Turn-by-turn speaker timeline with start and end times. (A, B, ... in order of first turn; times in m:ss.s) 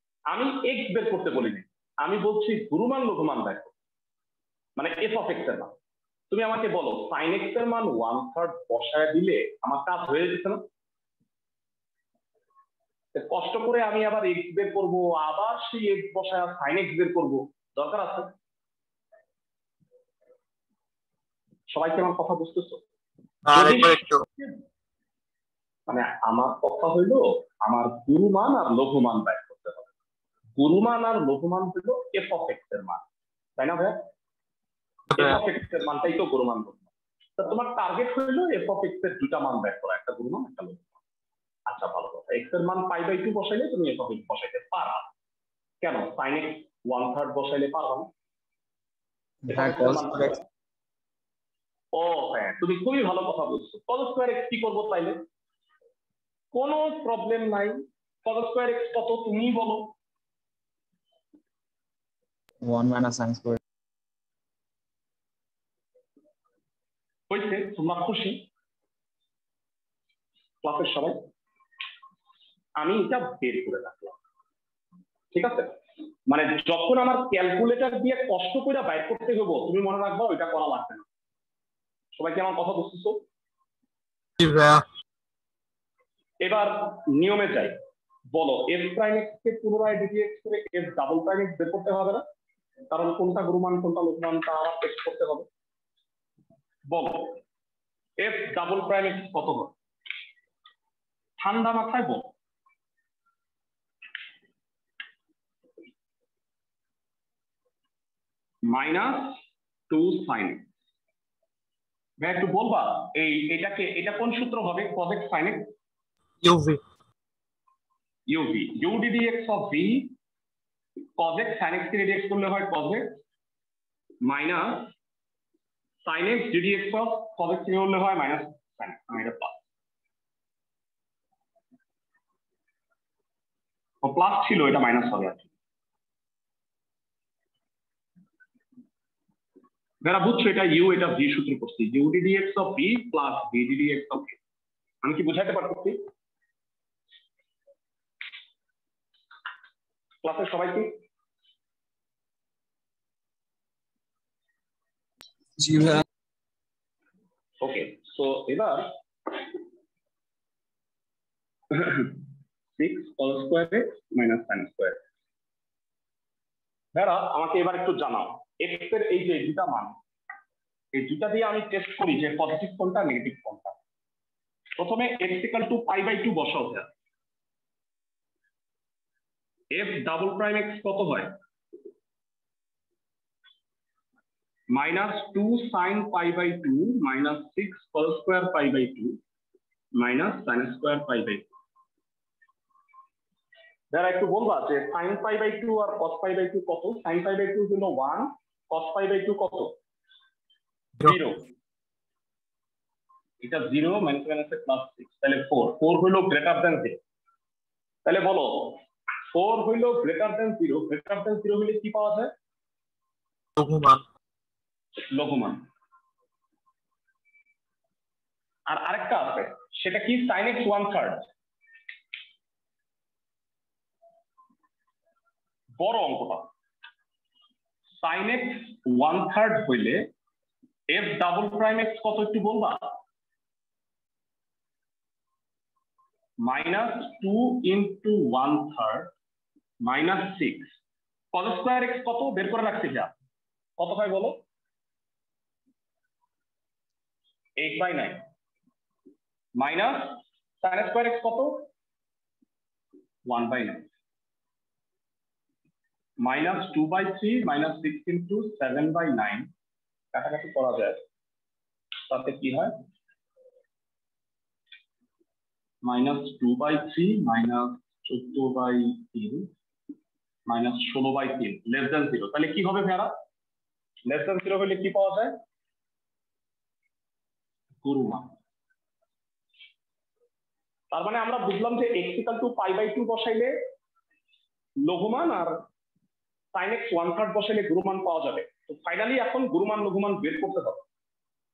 0:00.3-0:03.7 A
0:04.8-0:05.7 A
0:06.3-0:10.6 A
0:13.1-0:18.3 A
0:21.7-0:22.8 A
0:23.5-0:24.2 B
0:23.5-0:24.6 A
0:25.9-0:29.9 A
0:30.6-0:33.0 A
0:33.6-0:34.1 A
0:35.1-0:36.8 A
0:37.4-0:40.9 A
0:41.7-0:45.1 A
0:45.8-0:48.1 A
0:49.4-0:50.4 C
0:49.5-0:50.4 A
0:51.9-0:55.2 A
0:56.5-0:59.9 A
1:02.6-1:03.6 C
1:07.3-1:08.4 A
1:10.6-1:11.2 A
1:12.8-1:14.2 A
1:15.3-1:21.0 A
1:22.2-1:23.2 A
1:24.4-1:24.8 B
1:26.4-1:27.8 A
1:28.3-1:32.2 A
1:32.9-1:35.5 A
1:36.9-1:37.4 A
1:38.2-1:39.7 A
1:41.4-1:42.3 A
1:48.7-1:50.7 A
1:52.2-1:55.7 A
1:56.4-1:56.8 B
1:58.3-2:00.2 A
2:01.2-2:03.2 A
2:04.2-2:04.9 A
2:06.0-2:09.6 A
2:14.0-2:15.5 A
2:20.0-2:24.4 A
2:25.0-2:26.0 A
2:30.2-2:31.0 A
2:35.6-2:36.0 C
2:37.6-2:38.9 A
2:41.7-2:42.2 A
2:42.8-2:45.0 A
2:47.0-2:50.0 A
2:50.9-2:53.8 A
2:54.8-2:56.9 A
2:59.7-3:01.4 A
3:04.7-3:09.2 A
3:10.0-3:11.5 A
3:13.9-3:19.8 A
3:21.0-3:21.4 A
3:23.4-3:27.0 A
3:28.0-3:28.8 A
3:29.3-3:32.3 A
3:33.6-3:34.0 B
3:35.1-3:35.7 A
3:38.7-3:41.2 A
3:45.8-3:46.5 A
3:48.0-3:50.1 A
3:50.9-3:53.0 A
3:56.4-3:59.1 A
3:59.8-4:00.7 A
4:01.3-4:03.1 A
4:03.8-4:04.4 A
4:07.6-4:08.2 A
4:09.6-4:11.7 A
4:13.3-4:13.9 A
4:16.2-4:19.5 A
4:20.1-4:21.0 A
4:22.1-4:22.8 A
4:25.8-4:29.5 A
4:30.5-4:33.2 A
4:34.1-4:35.4 A
4:37.8-4:38.3 A
4:40.9-4:43.6 A
4:44.8-4:45.6 A
4:46.5-4:50.8 A